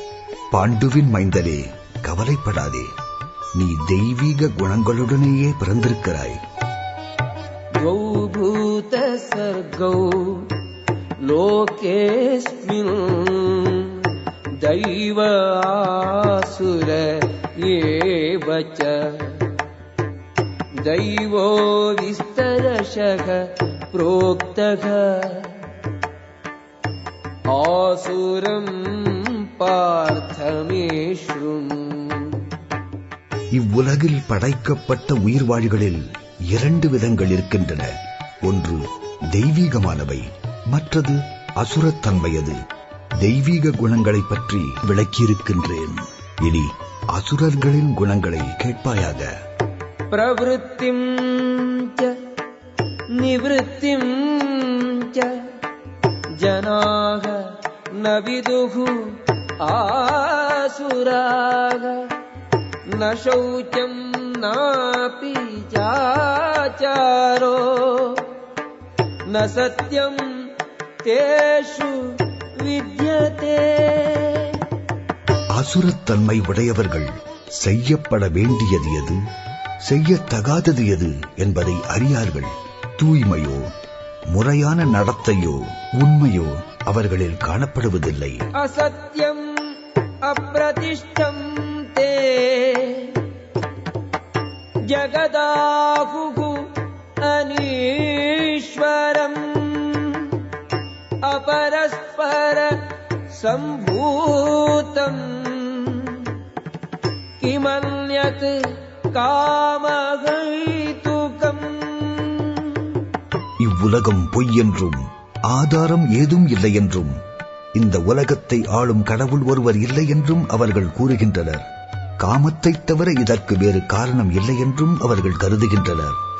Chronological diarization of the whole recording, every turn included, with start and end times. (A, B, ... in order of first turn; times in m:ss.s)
0:00.5-0:02.9 A
0:03.6-0:06.4 A
0:07.8-0:10.7 B
0:11.2-0:19.6 B
0:20.8-0:25.7 B
0:27.5-0:32.6 B
0:33.5-0:37.9 A
0:38.4-0:42.6 A
0:43.2-0:49.3 A
0:50.1-0:52.3 B
0:53.1-0:55.6 B
0:56.3-1:02.2 B
1:02.9-1:08.4 B
1:09.3-1:14.7 B
1:15.5-1:19.2 A
1:19.8-1:23.7 A
1:24.3-1:28.4 A
1:28.6-1:33.3 B
1:34.9-1:40.5 B
1:41.2-1:46.4 B
1:47.4-1:53.1 B
1:53.6-1:57.2 A
1:57.7-2:01.6 A
2:02.2-2:06.2 A